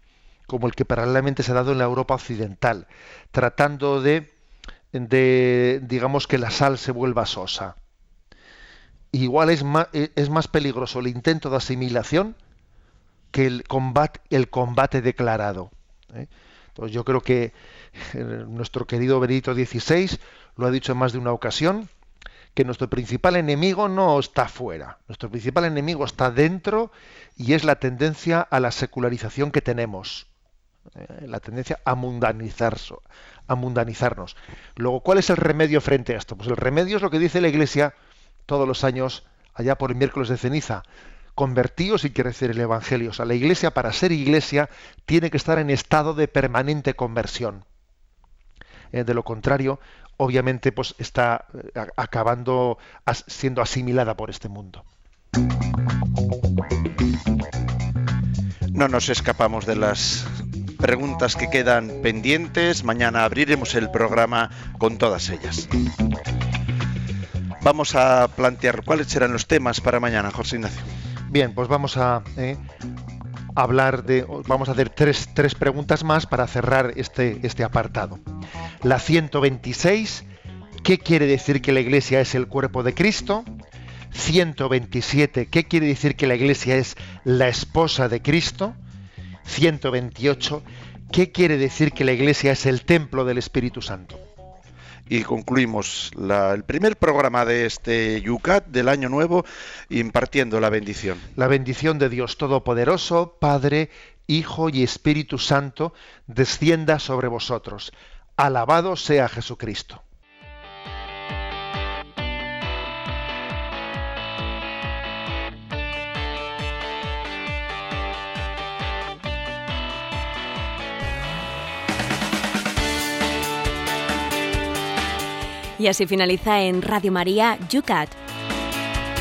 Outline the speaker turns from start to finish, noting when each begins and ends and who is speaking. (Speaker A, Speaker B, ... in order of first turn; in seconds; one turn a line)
Speaker A: 0.5-4.3
Speaker A: 4.9-7.8
Speaker A: 9.1-12.4
Speaker A: 13.3-21.9
Speaker A: 22.6-30.3
Speaker A: 31.0-37.9
Speaker A: 38.5-40.8
Speaker A: 41.4-47.6
Speaker A: 48.9-54.8
Speaker B: 58.7-65.7
Speaker B: 67.6-70.9
Speaker A: 71.3-72.6
Speaker A: 73.6-78.2
Speaker A: 78.8-80.3
Speaker A: 80.8-83.5
Speaker A: 84.1-88.8
Speaker A: 89.5-94.2
Speaker B: 95.1-101.3
Speaker A: 101.4-110.0
Speaker C: 125.8-128.2